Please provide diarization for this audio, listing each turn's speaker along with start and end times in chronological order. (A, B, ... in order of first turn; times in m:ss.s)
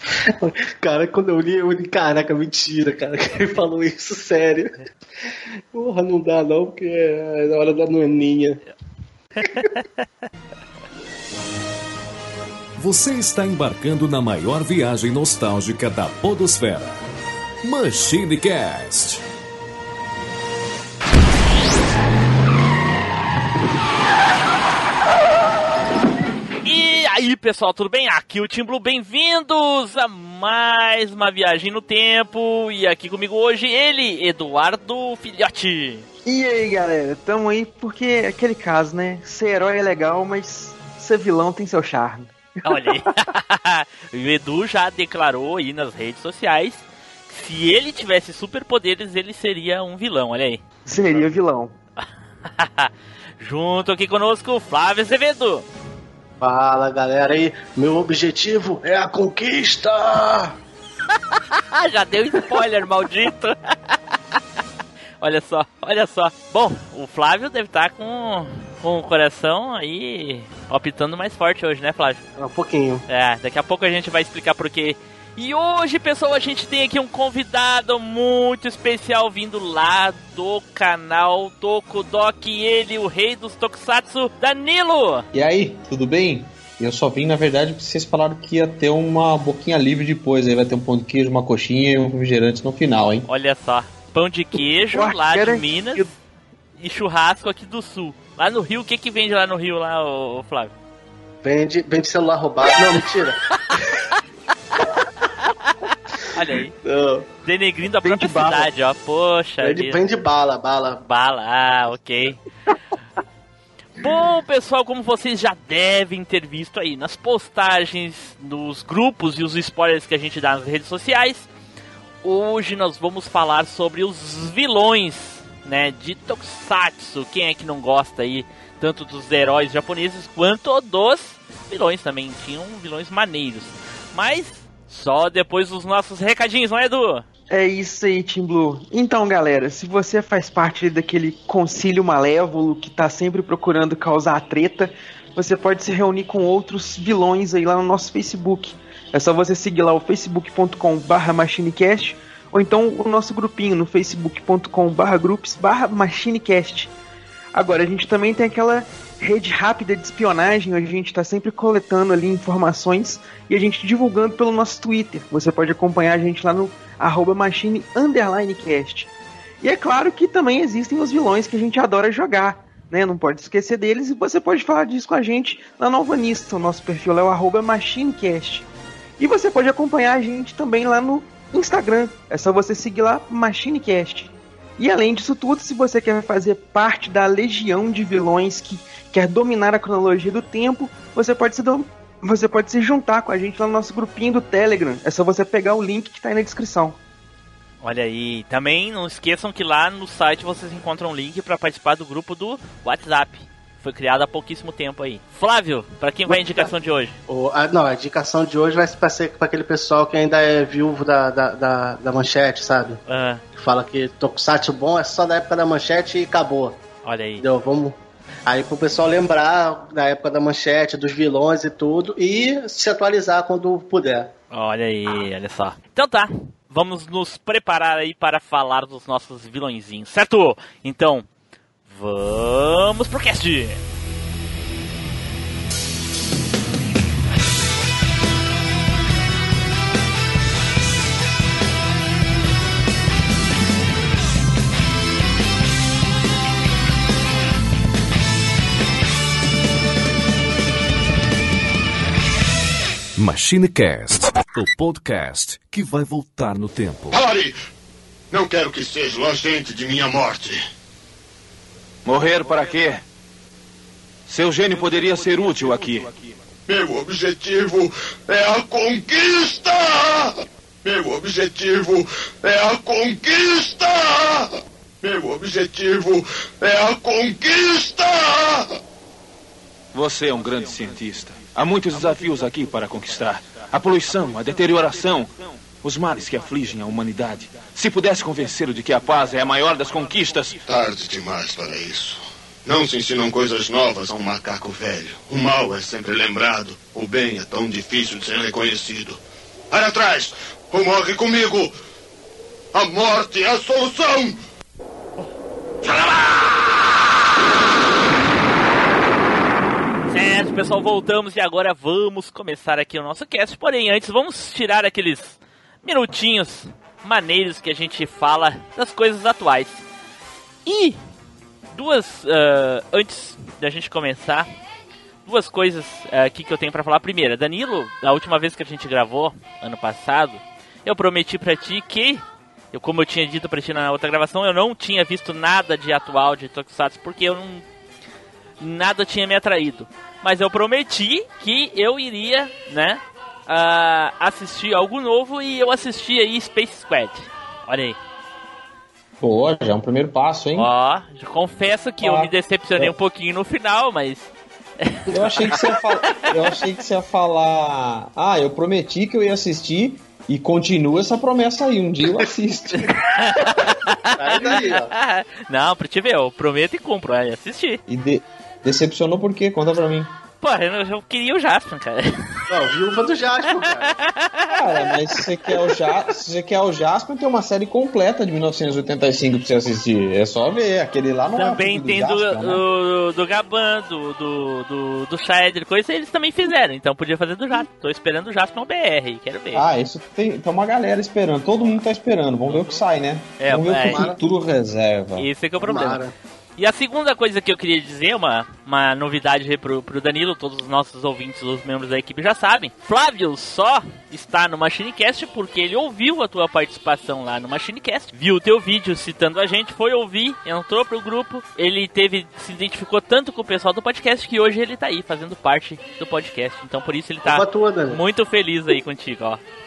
0:00.2-0:08.6 A
0:09.4-0:09.8 B
0:09.4-0:09.7 A
0:12.8-0:16.9 C
0:17.6-0:19.2 C
0:26.6-0:36.1 B
0:36.2-0:43.0 D
0:42.6-0:50.6 B
0:50.8-0:51.7 D
0:52.0-0:55.6 B
0:56.4-1:00.6 A
1:01.5-1:04.0 B
1:05.2-1:12.2 B
1:12.4-1:13.0 A
1:13.1-1:25.3 B
1:25.3-1:33.3 E
1:33.3-1:36.1 B
1:34.5-1:36.1 D
1:36.8-1:40.7 B
1:41.4-1:44.0 A
1:45.4-1:46.7 B
1:46.8-1:47.3 A
1:47.4-1:50.0 B
1:48.0-1:48.7 D
1:49.6-1:51.0 A
1:51.0-1:52.4 B
1:54.0-2:01.5 B
2:02.2-2:17.2 B
2:17.5-2:36.9 D
2:37.5-2:49.1 D
2:49.6-2:58.6 D
2:59.2-3:17.0 D
3:17.8-3:27.2 B
3:26.3-3:26.7 A
3:27.3-3:33.0 A
3:33.1-3:33.4 B
3:33.6-3:36.8 A
3:37.0-3:37.4 B
3:37.4-3:44.3 A
3:44.5-3:51.3 B
3:51.9-3:53.8 B
4:13.2-4:17.2 C
4:17.1-4:17.5 F
4:18.3-4:20.6 F
4:22.0-4:23.0 G
4:24.3-4:26.2 G
4:26.7-4:30.3 F
4:30.8-4:38.8 F
4:39.9-4:50.6 G
4:50.7-4:59.2 F
4:59.7-5:01.7 F
5:02.7-5:04.4 F
5:05.8-5:06.8 F
5:10.1-5:19.8 B
5:20.6-5:21.0 B
5:21.7-5:24.5 B
5:25.2-5:37.6 B
5:38.6-5:48.0 B
5:49.2-5:50.7 E
5:50.5-5:55.5 B
5:52.0-5:52.9 E
5:55.1-6:02.9 E
6:02.9-6:07.8 B
6:03.5-6:04.9 A
6:07.9-6:10.1 E
6:10.4-6:12.4 B
6:12.5-6:14.0 A
6:13.8-6:15.2 B
6:14.5-6:22.6 E
6:21.4-6:29.7 B
6:29.5-6:35.3 E
6:32.4-6:32.8 B
6:33.4-6:34.1 B
6:33.8-6:34.2 A
6:35.2-6:36.0 B
6:35.6-6:36.1 A
6:36.6-6:59.4 B
6:57.2-6:58.0 A